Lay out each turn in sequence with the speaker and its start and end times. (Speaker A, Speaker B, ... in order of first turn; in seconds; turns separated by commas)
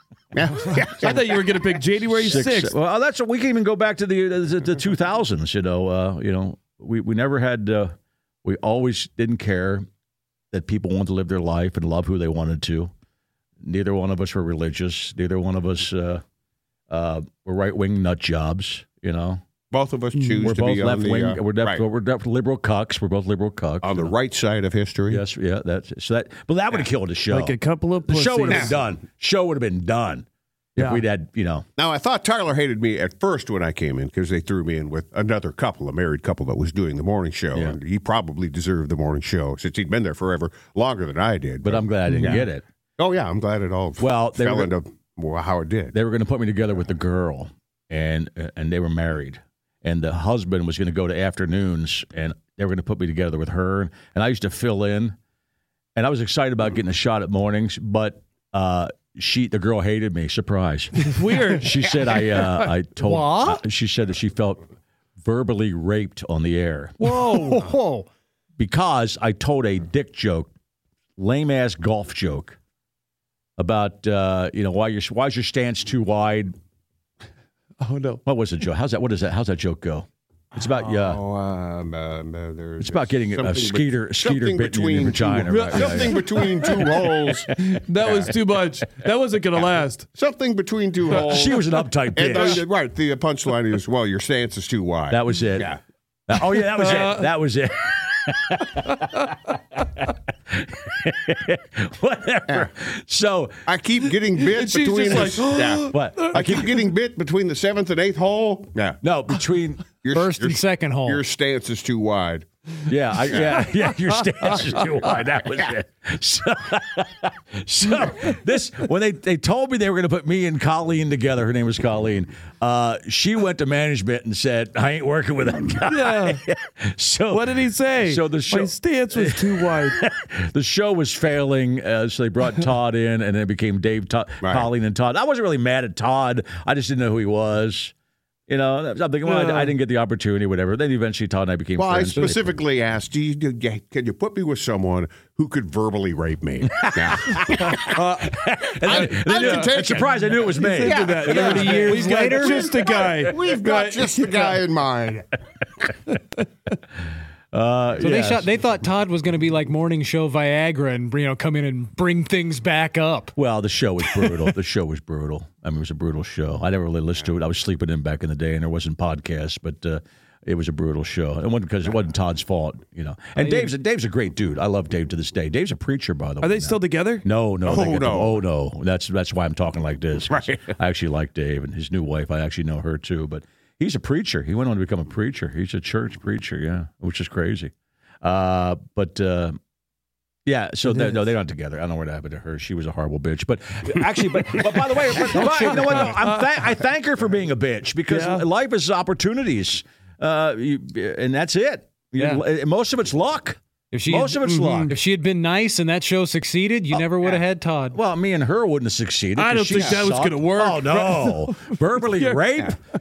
Speaker A: 0.3-1.8, Speaker B: 0.9-2.8, Speaker C: 2.1-9.9, Speaker C: 10.5-12.9, Speaker C: 13.6-16.2, Speaker C: 16.9-19.4, Speaker A: 19.7-21.8, Speaker B: 20.2-20.4, Speaker C: 20.4-24.1, Speaker A: 23.8-25.2, Speaker C: 25.1-30.3, Speaker B: 27.3-28.7, Speaker B: 30.8-31.0, Speaker C: 30.8-31.7, Speaker A: 31.8-42.4, Speaker C: 41.6-42.6, Speaker A: 43.0-46.0, Speaker C: 44.0-44.7, Speaker C: 45.9-55.2, Speaker C: 56.0-64.6, Speaker B: 61.0-62.5, Speaker D: 63.0-63.6, Speaker C: 65.2-66.9, Speaker D: 67.0-68.1, Speaker B: 67.0-67.7, Speaker C: 68.6-70.5, Speaker C: 71.2-72.6, Speaker C: 73.6-76.5, Speaker B: 77.8-78.2, Speaker C: 78.3-81.2, Speaker A: 80.9-88.3, Speaker C: 82.8-86.2, Speaker B: 85.5-90.1, Speaker A: 90.2-95.8, Speaker C: 91.2-92.6, Speaker B: 92.3-92.6, Speaker C: 95.1-95.7, Speaker C: 96.3-103.6, Speaker B: 96.8-97.2, Speaker A: 103.7-109.0, Speaker B: 104.5-106.7, Speaker C: 105.9-106.8, Speaker C: 109.0-109.8, Speaker A: 110.0-112.5, Speaker D: 110.1-111.2, Speaker C: 112.9-137.9, Speaker B: 125.9-126.4, Speaker B: 127.3-130.0, Speaker A: 134.4-134.7, Speaker C: 138.5-142.5, Speaker B: 139.3-139.7, Speaker A: 141.8-148.0, Speaker C: 146.8-151.9, Speaker B: 147.7-148.3, Speaker A: 148.8-155.3, Speaker B: 149.0-154.5, Speaker D: 151.2-152.7, Speaker C: 157.5-158.5, Speaker D: 158.0-163.3, Speaker C: 163.4-189.6, Speaker D: 173.4-173.7, Speaker B: 176.4-177.2, Speaker A: 177.6-178.4, Speaker A: 180.3-180.6, Speaker C: 190.5-205.0, Speaker B: 190.9-191.2, Speaker B: 195.4-196.5, Speaker D: 195.4-196.1, Speaker B: 198.1-198.5, Speaker D: 202.2-202.4, Speaker D: 203.9-208.0, Speaker B: 204.4-205.0, Speaker C: 207.9-212.8, Speaker B: 209.4-212.4, Speaker A: 209.7-210.0